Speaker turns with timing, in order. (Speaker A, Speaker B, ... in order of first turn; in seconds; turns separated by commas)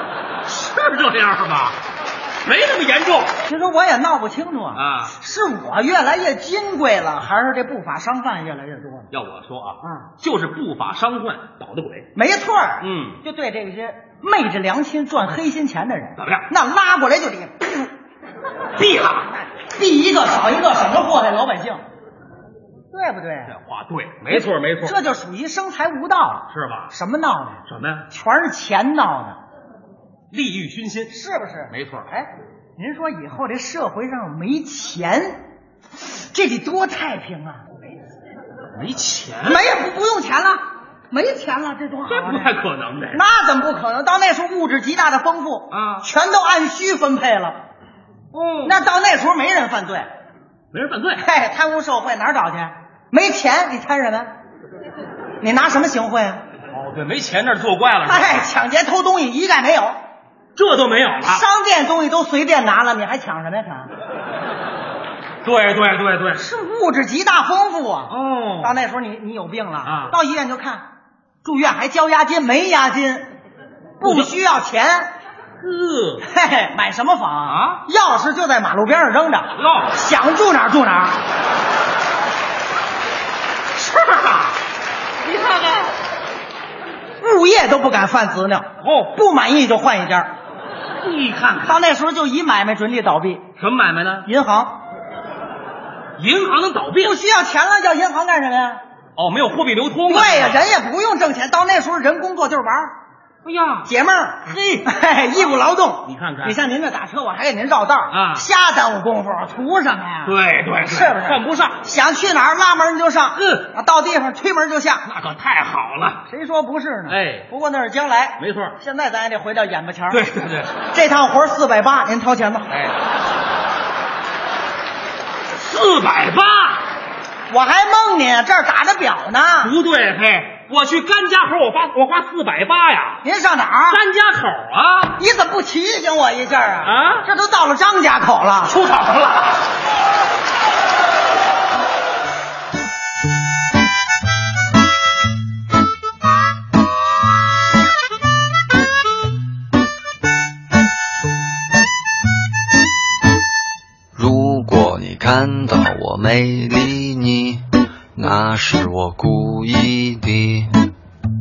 Speaker A: 0.5-1.8, Speaker A: 2.4-3.3, Speaker B: 3.5-9.1, Speaker A: 4.7-5.1, Speaker A: 9.1-12.1, Speaker B: 9.8-10.1, Speaker B: 12.2-17.9, Speaker A: 12.8-13.2, Speaker A: 16.2-16.5, Speaker A: 18.8-19.3, Speaker B: 19.0-21.8, Speaker B: 22.9-23.5, Speaker A: 23.4-25.0, Speaker B: 24.3-29.4, Speaker A: 26.5-26.9, Speaker A: 27.6-28.1, Speaker A: 30.3-31.1, Speaker B: 31.1-35.4, Speaker A: 31.7-32.1, Speaker B: 36.0-37.6, Speaker A: 38.7-39.7, Speaker B: 39.4-42.6, Speaker A: 42.1-43.2, Speaker B: 43.1-47.6, Speaker A: 45.7-46.1, Speaker A: 48.3-48.8, Speaker B: 48.6-50.1, Speaker A: 50.7-51.3, Speaker B: 51.2-54.3, Speaker B: 55.4-56.4, Speaker A: 56.7-58.5, Speaker B: 58.0-60.0, Speaker A: 60.5-61.4, Speaker B: 61.2-63.9, Speaker A: 65.4-66.4, Speaker B: 66.3-70.9, Speaker A: 68.1-68.8, Speaker A: 69.8-70.2, Speaker B: 71.4-73.3, Speaker B: 74.0-75.1, Speaker A: 74.0-74.3, Speaker A: 75.6-76.3, Speaker B: 76.2-81.2, Speaker A: 77.4-77.8, Speaker A: 79.6-79.9, Speaker A: 83.8-84.6, Speaker B: 87.2-90.3, Speaker A: 88.8-89.1, Speaker A: 91.0-91.8, Speaker B: 91.6-93.4, Speaker A: 93.6-94.3, Speaker B: 94.2-94.8, Speaker A: 96.2-97.2, Speaker B: 97.0-98.8, Speaker A: 99.2-100.7, Speaker B: 100.1-102.9, Speaker A: 103.4-103.9, Speaker B: 103.8-115.1, Speaker A: 104.5-104.9, Speaker A: 106.0-106.6, Speaker A: 108.1-108.5, Speaker A: 110.2-111.8, Speaker A: 113.3-113.6, Speaker A: 115.0-116.2, Speaker B: 116.3-120.2, Speaker A: 117.1-117.5, Speaker A: 118.4-118.8, Speaker A: 120.1-120.7, Speaker B: 120.9-122.7, Speaker A: 122.7-122.9, Speaker A: 125.6-126.9, Speaker B: 127.5-129.7, Speaker A: 129.6-133.2, Speaker B: 133.2-134.0, Speaker A: 133.9-135.2, Speaker B: 135.2-138.7, Speaker A: 136.8-137.2, Speaker A: 138.7-139.7, Speaker C: 154.1-160.7